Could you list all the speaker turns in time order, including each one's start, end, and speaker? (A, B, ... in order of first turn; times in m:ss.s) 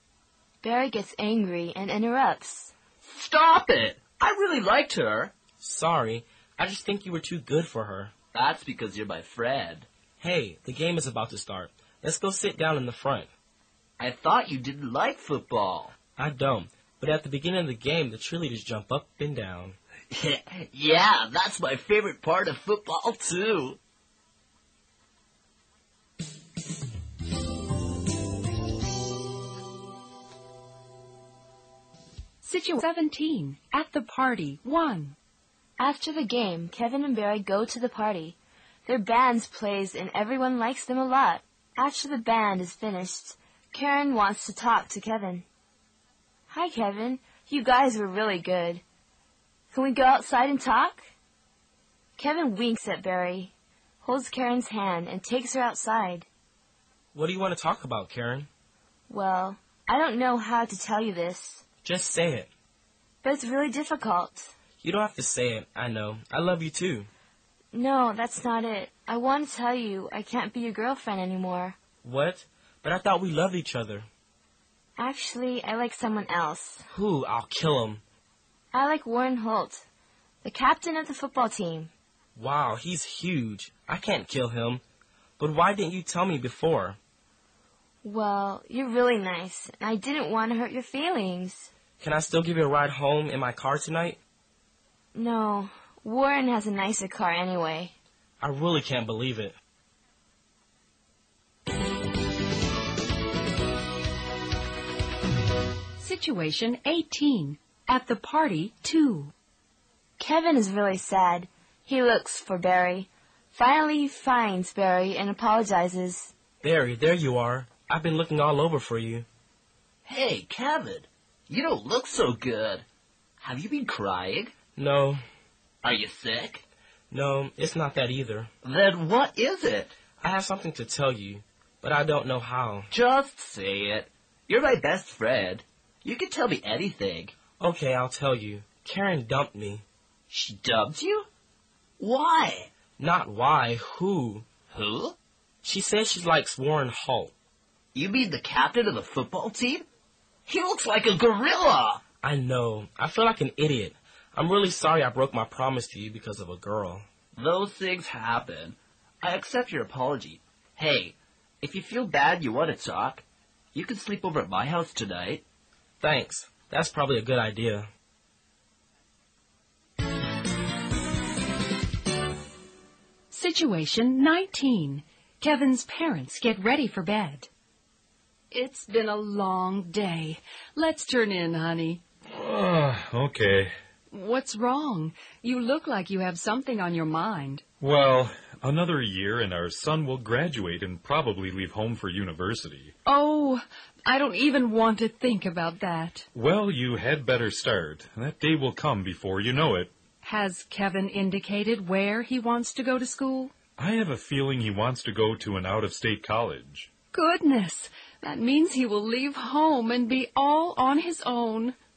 0:00.6-0:02.7 A
0:03.0-0:05.3 B
0:05.6-0:08.1 C
0:08.3-0:09.9 B
0:10.2-0:13.3 C
0:14.0-0:15.9 B
0:16.2-0:19.8 C
0:20.1-0:23.8 B
0:32.4-0:35.2 D
0:35.8-0:45.4 A
0:46.5-0:48.8 A
0:49.7-0:51.0 A
0:52.2-0:56.3 A
0:57.1-0:58.5 C
0:59.1-1:01.6 A
1:01.8-1:02.5 C
1:03.2-1:04.5 A
1:04.8-1:07.1 C
1:07.7-1:11.8 A
1:12.0-1:14.1 C
1:15.0-1:16.9 A
1:16.9-1:18.0 C
1:18.7-1:19.8 A
1:20.4-1:21.9 A
1:22.4-1:24.8 C
1:25.4-1:27.0 C
1:28.0-1:31.7 A
1:32.0-1:34.2 C
1:35.1-1:37.9 A
1:38.4-1:39.6 C
1:46.0-1:49.3 D
1:50.2-1:56.3 A
1:56.6-1:59.3 C
2:00.1-2:02.8 B
2:03.4-2:04.5 B
2:04.8-2:05.2 C
2:05.8-2:06.6 B
2:07.1-2:08.5 C
2:08.6-2:09.9 B
2:10.2-2:12.9 C
2:12.9-2:17.4 B
2:17.6-2:19.8 C
2:20.3-2:21.3 B
2:22.0-2:22.7 B
2:23.0-2:24.4 C
2:24.7-2:25.2 B
2:25.6-2:27.3 C
2:28.0-2:29.9 B
2:30.5-2:32.0 B
2:32.2-2:37.0 C
2:37.4-2:43.2 B
2:43.8-2:45.4 B
2:46.0-2:47.9 C
2:53.3-2:57.5 D
2:58.5-3:02.0 D
3:02.3-3:03.7 E
3:04.1-3:07.6 D
3:07.8-3:12.9 E
3:13.0-3:16.3 D
3:16.3-3:19.9 E
3:20.2-3:23.5 D
3:23.8-3:26.9 E
3:27.1-3:31.8 D